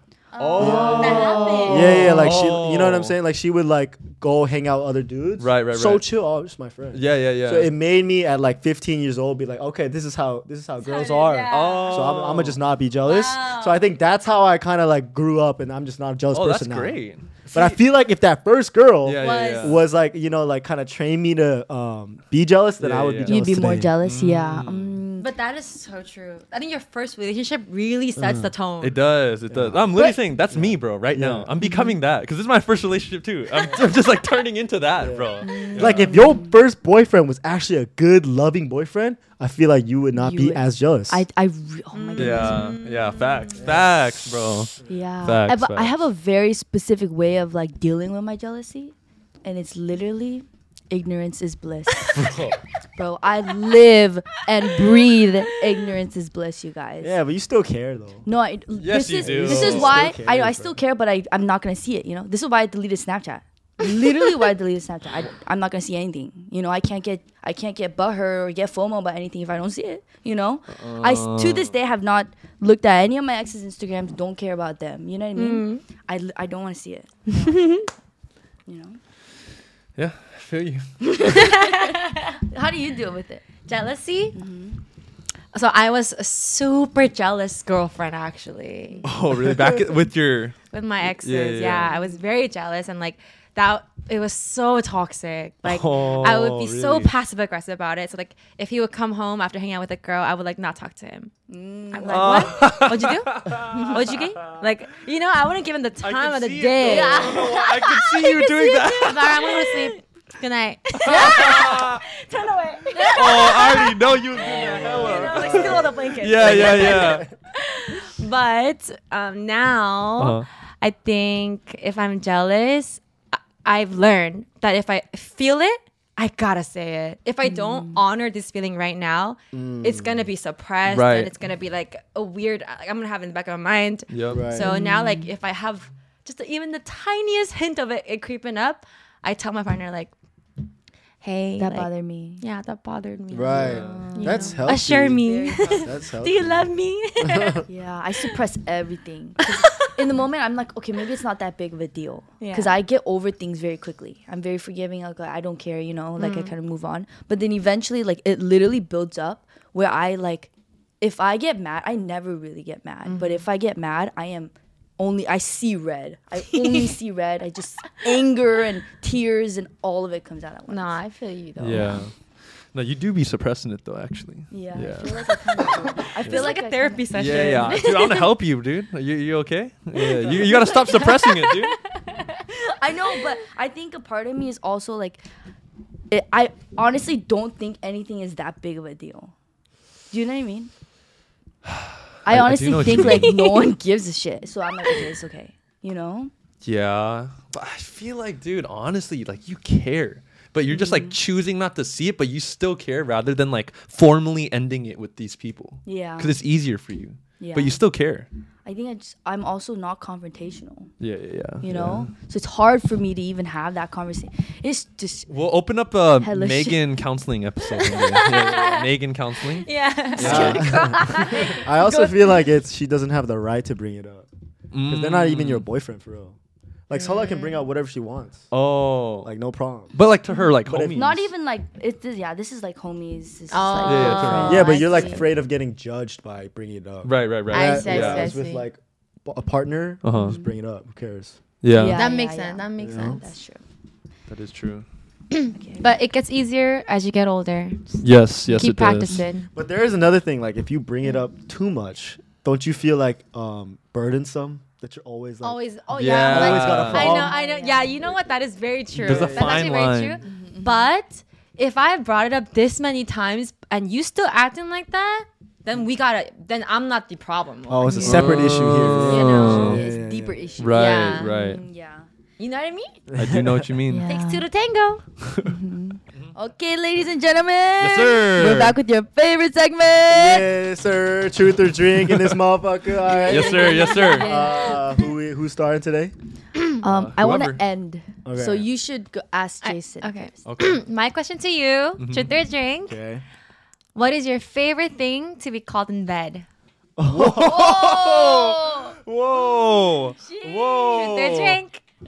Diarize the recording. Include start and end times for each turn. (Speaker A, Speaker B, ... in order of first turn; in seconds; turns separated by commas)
Speaker A: 0.3-2.1, Speaker B: 0.4-3.1, Speaker C: 0.5-2.2, Speaker D: 0.6-17.0, Speaker B: 5.4-6.0, Speaker B: 6.9-7.7, Speaker A: 10.8-12.3, Speaker B: 11.5-12.6, Speaker A: 13.1-13.9, Speaker B: 16.3-17.8, Speaker D: 17.5-23.9, Speaker B: 19.0-19.8, Speaker A: 19.2-19.8, Speaker B: 22.8-23.4, Speaker C: 23.2-25.3, Speaker B: 24.0-25.0, Speaker A: 25.2-29.0, Speaker D: 28.2-28.5, Speaker B: 28.8-36.2, Speaker D: 29.5-31.5, Speaker C: 31.6-32.0, Speaker D: 35.0-41.2, Speaker C: 35.4-36.5, Speaker C: 40.1-42.8, Speaker A: 41.9-43.6, Speaker B: 42.1-45.9, Speaker D: 43.6-44.9, Speaker C: 44.9-52.3, Speaker B: 52.1-52.6, Speaker C: 53.0-57.2, Speaker D: 57.0-58.2, Speaker C: 58.2-77.8, Speaker B: 58.8-60.1, Speaker D: 59.2-60.8, Speaker B: 70.8-71.7, Speaker A: 75.3-75.8, Speaker A: 77.3-77.9, Speaker C: 78.7-79.0, Speaker B: 80.0-81.4, Speaker C: 81.1-83.4, Speaker A: 81.2-82.4, Speaker A: 83.6-84.4, Speaker C: 84.3-84.8, Speaker A: 85.5-89.0, Speaker B: 89.0-91.9, Speaker A: 90.7-101.3, Speaker B: 95.6-97.1, Speaker C: 101.5-102.8, Speaker A: 101.9-140.1, Speaker B: 102.0-104.6, Speaker C: 103.7-104.0, Speaker B: 106.0-109.6, Speaker C: 106.8-107.7, Speaker B: 111.0-112.0, Speaker C: 111.1-111.6, Speaker C: 113.0-113.3, Speaker B: 113.1-117.2, Speaker D: 114.6-117.3, Speaker B: 120.2-120.5, Speaker C: 127.4-128.0, Speaker D: 129.5-130.3, Speaker B: 130.8-131.3, Speaker B: 134.1-134.5, Speaker D: 134.3-134.7, Speaker C: 134.6-135.3, Speaker A: 141.2-141.9, Speaker C: 141.6-142.4, Speaker A: 142.4-147.6, Speaker D: 143.3-146.7, Speaker B: 143.5-144.1, Speaker C: 143.6-145.9, Speaker D: 147.2-147.6, Speaker C: 147.7-160.5, Speaker A: 149.4-149.9, Speaker A: 152.4-152.8, Speaker A: 156.2-156.5, Speaker C: 161.0-171.0, Speaker A: 163.0-163.4, Speaker A: 166.5-166.9, Speaker A: 170.7-172.0, Speaker B: 171.6-172.1, Speaker C: 171.7-172.0, Speaker B: 172.7-176.5, Speaker C: 174.5-177.8, Speaker A: 176.0-178.3, Speaker B: 177.1-181.8, Speaker A: 179.9-181.7, Speaker C: 180.4-180.9, Speaker C: 182.5-185.2, Speaker C: 186.1-189.3, Speaker C: 190.1-190.7, Speaker B: 191.7-193.7, Speaker C: 192.2-196.3, Speaker B: 196.6-208.3, Speaker C: 200.7-201.2, Speaker C: 205.8-206.4, Speaker C: 207.4-207.8, Speaker C: 208.6-210.9, Speaker B: 211.0-212.0, Speaker C: 211.6-215.3, Speaker D: 211.7-212.1, Speaker B: 215.3-220.7, Speaker C: 216.2-216.8, Speaker A: 217.8-218.9, Speaker A: 219.6-222.3, Speaker C: 220.2-221.2, Speaker D: 220.2-224.2, Speaker B: 224.7-225.7, Speaker D: 224.9-226.3, Speaker D: 226.9-228.4, Speaker A: 226.9-227.7, Speaker B: 228.5-229.3, Speaker D: 229.2-229.9, Speaker B: 229.9-231.3, Speaker D: 230.6-231.2, Speaker C: 230.9-235.3, Speaker A: 233.5-235.2, Speaker B: 233.8-234.7, Speaker D: 234.4-241.3, Speaker B: 237.0-238.3, Speaker A: 237.5-238.7, Speaker B: 240.0-240.3, Speaker C: 240.2-240.5, Speaker B: 241.6-242.0, Speaker C: 241.7-243.6, Speaker A: 241.9-243.3, Speaker D: 242.8-243.2, Speaker B: 244.3-244.8, Speaker A: 245.3-249.5, Speaker C: 245.5-245.9, Speaker B: 248.0-249.2, Speaker D: 249.5-257.3, Speaker A: 255.4-268.3, Speaker B: 255.9-257.3, Speaker C: 256.9-258.0, Speaker B: 259.0-260.2, Speaker D: 259.0-259.7, Speaker C: 260.2-260.9, Speaker D: 267.7-270.6, Speaker C: 267.8-272.0, Speaker B: 268.0-269.8, Speaker A: 269.1-269.7, Speaker B: 270.6-271.6, Speaker A: 270.7-271.6, Speaker A: 272.4-273.0, Speaker D: 273.1-273.7, Speaker B: 273.1-274.1, Speaker C: 273.9-274.4, Speaker A: 274.1-275.0, Speaker B: 275.2-275.5, Speaker C: 275.4-280.5, Speaker B: 277.8-278.8, Speaker D: 280.1-286.1, Speaker B: 282.0-282.3, Speaker A: 283.2-284.8, Speaker B: 283.2-284.3, Speaker C: 283.2-284.8, Speaker C: 286.8-290.3, Speaker B: 286.8-287.6, Speaker D: 288.2-288.7, Speaker A: 289.6-293.0, Speaker B: 290.4-290.8, Speaker B: 292.0-292.3, Speaker D: 292.9-293.2, Speaker A: 293.9-296.5, Speaker D: 297.0-297.6, Speaker B: 297.1-301.6, Speaker C: 297.4-298.9, Speaker C: 300.2-301.2, Speaker A: 300.3-301.8